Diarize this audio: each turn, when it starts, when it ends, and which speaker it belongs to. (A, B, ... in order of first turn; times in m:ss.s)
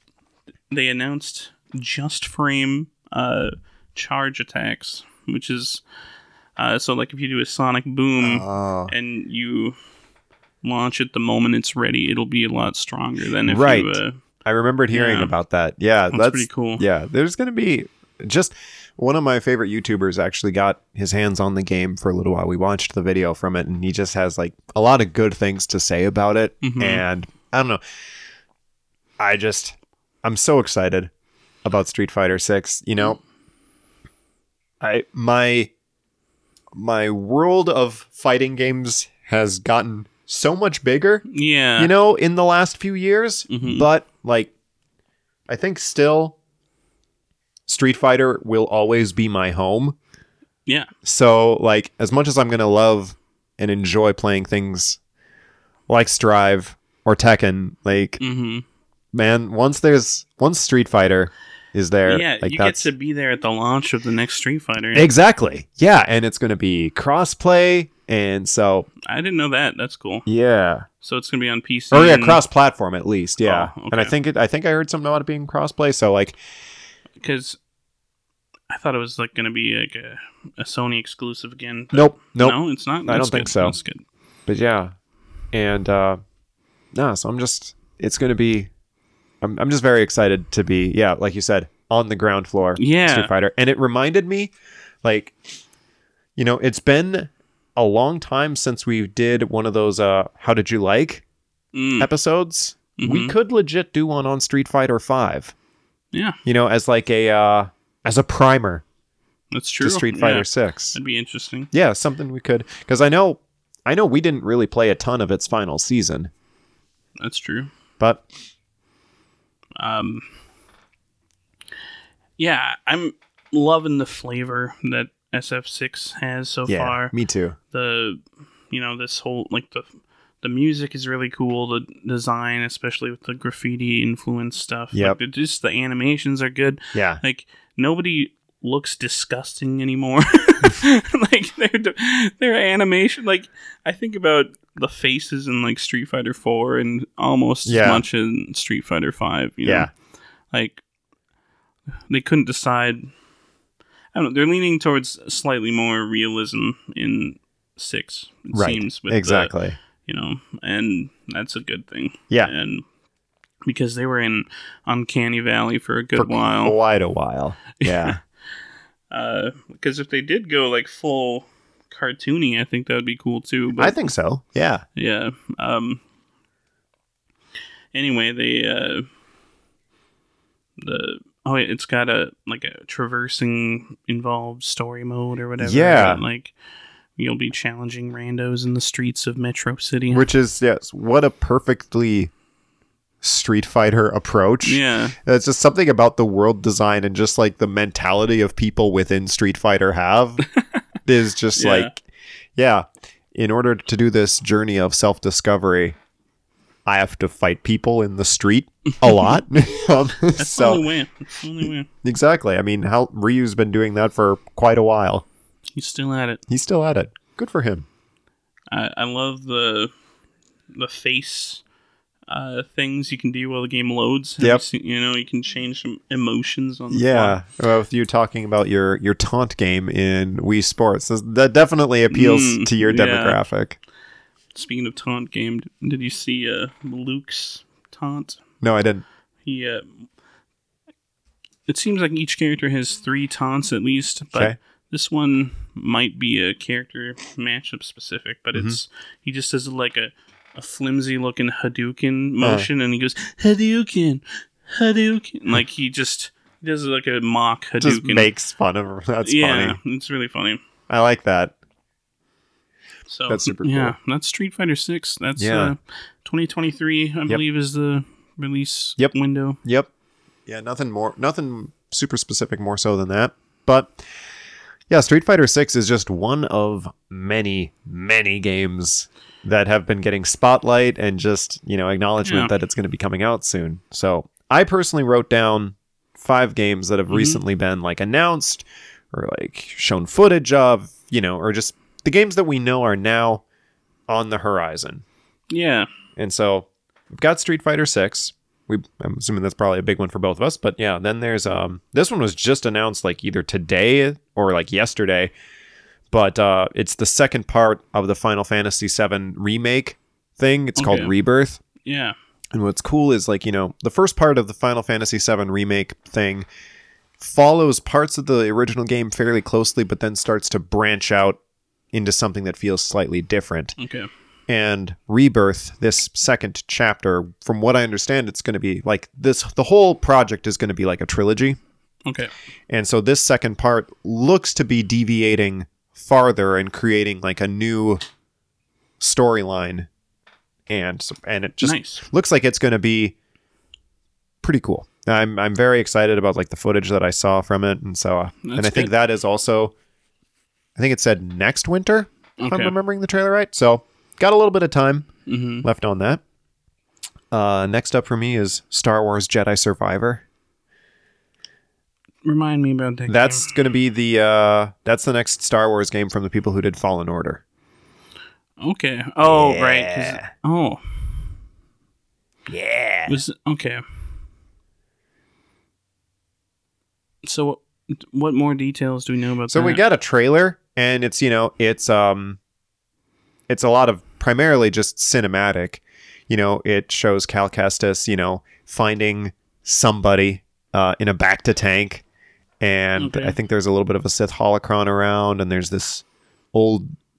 0:00.7-0:05.8 A
0:06.6-0:09.8 A
0:08.2-0:08.9 B
0:10.6-0:14.2 A
0:13.4-0:27.8 B
0:14.9-0:15.3 A
0:16.1-0:16.8 A
0:26.6-0:27.0 A
0:29.2-0:31.1 B
0:31.6-0:33.2 B
0:34.8-0:35.7 B
0:36.7-0:41.2 B
0:41.3-0:41.9 A
0:41.8-0:44.5 B
0:43.5-0:43.8 A
0:45.5-0:46.4 B
0:47.7-0:50.0 B
0:51.0-0:55.0 B
0:55.9-0:58.2 B
0:58.2-0:58.6 A
0:59.1-1:02.9 B
1:02.0-1:05.1 A
1:04.9-1:08.9 B
1:09.0-1:10.2 A
1:10.2-1:10.8 B
1:11.0-1:12.4 A
1:11.9-1:16.4 B
1:13.4-1:14.1 A
1:17.2-1:17.6 A
1:18.7-1:24.0 A
1:21.9-1:23.8 B
1:24.5-1:24.9 B
1:25.5-1:26.2 B
1:26.9-1:28.7 B
1:29.4-1:34.5 B
1:32.8-1:33.3 A
1:35.0-1:35.4 B
1:36.4-1:41.2 B
1:41.7-1:42.1 A
1:42.0-1:45.5 B
1:43.0-1:43.3 A
1:46.1-1:46.4 A
1:46.4-1:48.8 B
1:49.5-1:51.7 A
1:49.8-1:51.0 B
1:51.7-1:56.3 B
1:57.2-1:57.7 A
1:59.8-2:00.3 A
2:02.4-2:07.1 A
2:06.7-2:07.6 B
2:07.7-2:09.9 A
2:10.4-2:29.9 A
2:16.9-2:17.2 B
2:27.6-2:28.0 B
2:29.6-2:29.9 B
2:30.5-2:30.8 A
2:32.1-2:33.1 A
2:34.1-2:42.8 A
2:38.5-2:39.8 B
2:43.6-2:46.8 A
2:46.2-2:48.2 B
2:47.8-2:48.1 A
2:49.1-2:54.0 A
2:53.8-2:54.8 B
2:55.0-2:56.0 A
2:57.9-2:59.1 A
3:00.8-3:06.5 A
3:05.6-3:06.2 B
3:07.2-3:10.2 A
3:10.1-3:12.3 B
3:13.2-3:20.4 B
3:14.6-3:15.2 A
3:21.0-3:22.0 B
3:21.5-3:21.9 A
3:22.6-3:26.0 B
3:26.8-3:30.8 B
3:30.4-3:31.9 A
3:32.0-3:35.3 B
3:35.7-3:36.4 A
3:36.5-3:37.8 B
3:38.7-3:39.9 A
3:40.7-3:41.6 A
3:42.3-3:47.4 A
3:46.9-3:53.8 B
3:52.1-3:53.4 A
3:54.5-3:58.4 A
3:58.6-3:59.0 B
3:59.4-4:00.0 A
4:01.7-4:18.3 A
4:12.4-4:12.7 B
4:17.8-4:19.8 B
4:19.2-4:20.6 A
4:20.9-4:21.5 B
4:23.1-4:29.6 A
4:23.3-4:23.9 B
4:25.4-4:25.7 B
4:29.0-4:29.9 B
4:30.5-4:34.0 B
4:34.9-4:53.4 B
4:42.2-4:42.5 A
4:47.1-4:47.4 A
4:54.1-4:55.0 B
4:55.5-4:55.9 A
4:56.2-5:05.3 B
5:06.1-5:11.6 B
5:10.8-5:11.1 A
5:11.8-5:12.1 A
5:12.5-5:16.5 B
5:17.2-5:21.4 B
5:21.9-5:23.8 B
5:23.8-5:24.1 A
5:24.5-5:31.6 B
5:32.0-5:32.3 A
5:32.7-5:38.0 B
5:39.0-5:39.9 B
5:40.7-5:43.1 B
5:41.6-5:42.0 A
5:44.4-5:49.7 B
5:48.4-5:48.9 A
5:50.8-5:55.1 B
5:52.4-5:52.7 A
5:55.3-5:55.6 A
5:55.6-5:56.2 B
5:57.3-6:00.2 B
6:02.2-6:03.5 A
6:03.1-6:07.4 B
6:08.6-6:11.2 A
6:09.2-6:10.3 B
6:12.5-6:13.2 B
6:13.1-6:13.8 A
6:17.2-6:19.8 A
6:19.5-6:22.4 B
6:23.5-6:32.0 B
6:32.6-6:36.9 B
6:33.0-6:33.4 A